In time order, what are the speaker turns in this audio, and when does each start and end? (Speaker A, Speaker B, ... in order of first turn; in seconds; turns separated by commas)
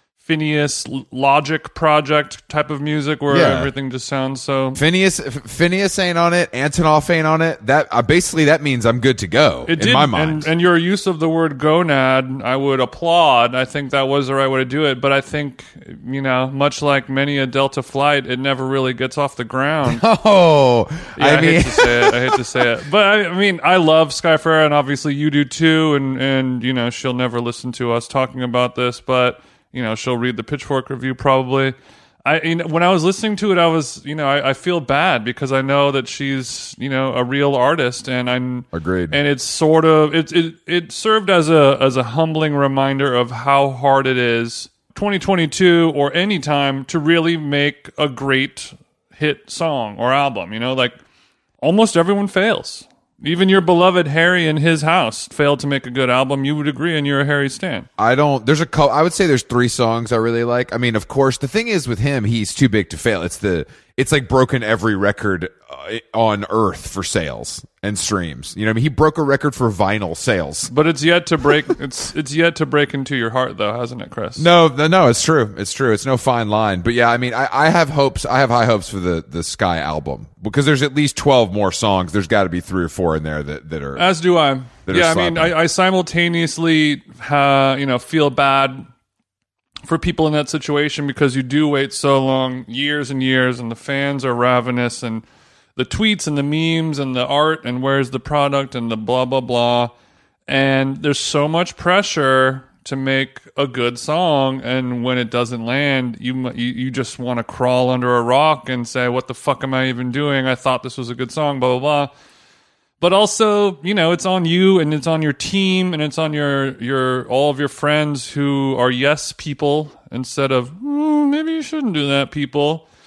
Speaker A: 0.2-4.8, Speaker B: 3.3-3.7, Speaker B: 4.8-10.5, Speaker A: 9.7-20.0, Speaker B: 19.9-22.6, Speaker A: 21.2-51.0, Speaker B: 38.7-39.2, Speaker A: 51.6-57.9, Speaker B: 58.0-70.7, Speaker A: 70.7-74.5, Speaker B: 74.4-84.1, Speaker A: 84.0-88.8, Speaker B: 84.9-85.5, Speaker A: 89.8-95.2, Speaker A: 95.8-99.9, Speaker A: 100.5-112.1, Speaker A: 113.0-122.8